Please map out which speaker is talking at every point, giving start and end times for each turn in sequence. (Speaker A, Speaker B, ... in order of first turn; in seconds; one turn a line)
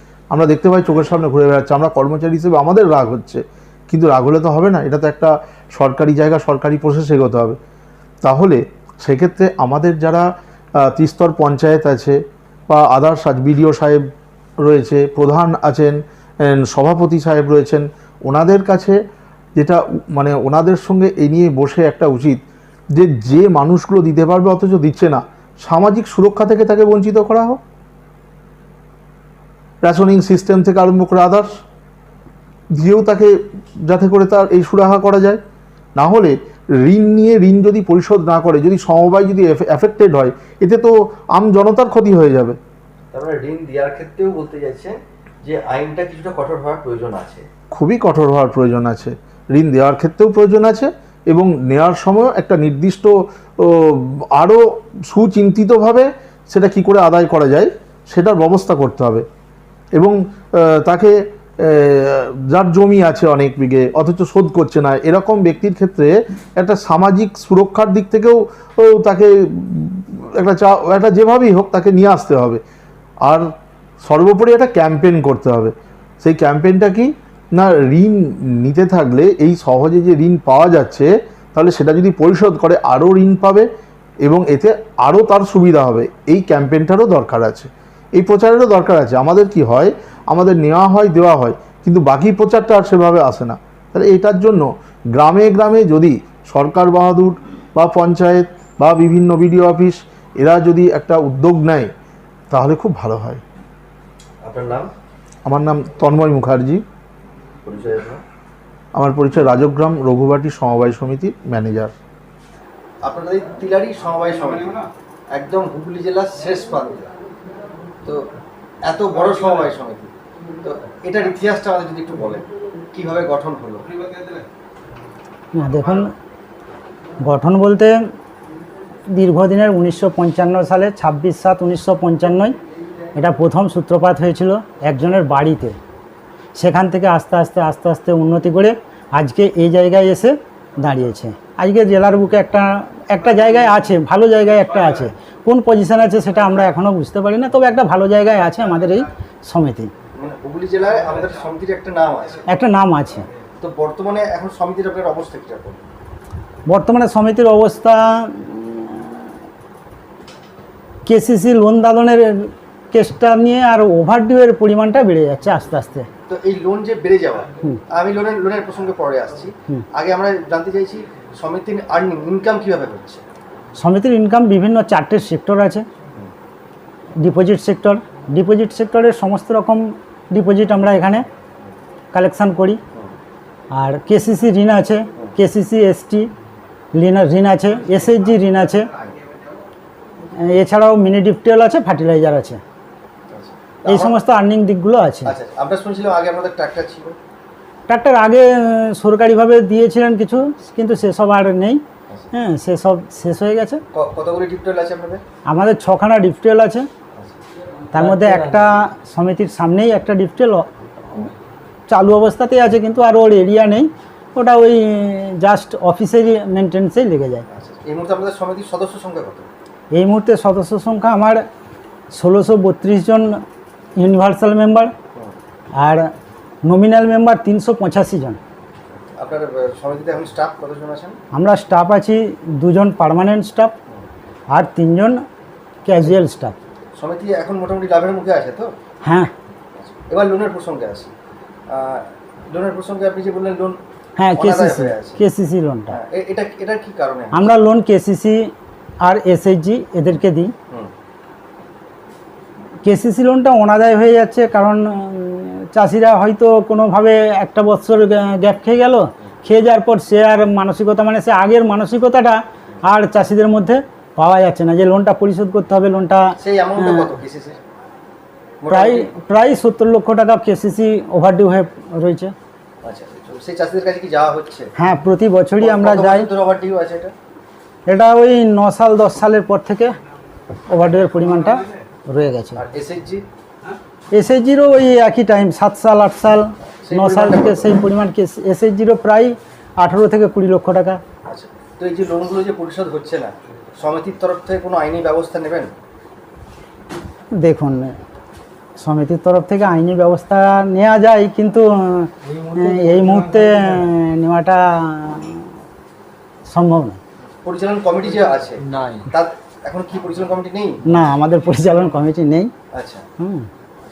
Speaker A: 0.3-7.6
Speaker A: 8.2-10.3
Speaker A: 10.8-14.0
Speaker A: 14.6-19.0
Speaker A: 19.6-22.4
Speaker A: 22.9-27.6
Speaker A: 29.8-31.5
Speaker A: 32.7-35.4
Speaker A: 36.0-42.6
Speaker B: 43.1-47.5
Speaker A: 47.7-59.2
Speaker A: 60.0-72.6
Speaker A: 73.2-73.5
Speaker A: 74.0-83.7
Speaker A: 84.2-101.9
Speaker A: 102.5-103.4
Speaker B: 104.4-104.9
Speaker A: 105.5-106.8
Speaker B: 107.6-108.2
Speaker A: 108.9-111.9
Speaker B: 113.0-117.1
Speaker B: 118.8-120.1
Speaker B: 120.6-123.8
Speaker C: 125.5-126.1
Speaker C: 127.2-128.0
Speaker C: 129.1-132.6
Speaker C: 133.1-135.8
Speaker C: 136.6-149.9
Speaker B: 150.2-152.5
Speaker C: 152.5-153.3
Speaker B: 153.6-155.8
Speaker C: 156.7-159.3
Speaker C: 161.1-166.1
Speaker B: 166.3-173.2
Speaker C: 173.8-175.8
Speaker C: 177.2-181.2
Speaker C: 182.1-182.8
Speaker C: 183.7-186.3
Speaker C: 186.9-188.9
Speaker C: 190.4-192.6
Speaker B: 193.3-194.2
Speaker C: 193.8-195.3
Speaker B: 195.2-197.2
Speaker C: 197.9-203.8
Speaker B: 203.9-205.2
Speaker C: 205.5-206.9
Speaker C: 207.9-211.3
Speaker C: 211.9-217.4
Speaker B: 217.5-219.5
Speaker C: 219.9-221.4
Speaker C: 222.1-223.4
Speaker C: 224.0-224.9
Speaker C: 225.8-226.1
Speaker C: 226.6-228.4
Speaker B: 229.2-231.2
Speaker C: 231.3-233.7
Speaker C: 234.5-235.2
Speaker C: 235.8-236.6
Speaker B: 236.9-238.7
Speaker C: 239.0-239.3
Speaker B: 239.8-241.1
Speaker B: 241.7-243.8
Speaker C: 244.2-246.0
Speaker B: 244.3-245.2
Speaker B: 245.9-247.5
Speaker C: 247.3-248.5
Speaker C: 249.0-250.5
Speaker C: 252.8-267.1
Speaker B: 266.4-267.6
Speaker B: 268.6-269.1
Speaker C: 268.7-272.3
Speaker B: 272.8-274.7
Speaker C: 274.8-276.3
Speaker B: 275.6-277.1
Speaker C: 277.9-279.9
Speaker C: 280.7-282.6
Speaker B: 282.5-283.2
Speaker C: 284.1-291.0
Speaker B: 286.8-287.7
Speaker B: 291.3-295.7
Speaker C: 297.4-298.0
Speaker C: 298.8-305.5
Speaker C: 306.5-307.0
Speaker B: 307.4-310.8
Speaker C: 310.9-312.5
Speaker B: 312.7-313.1
Speaker C: 313.2-313.5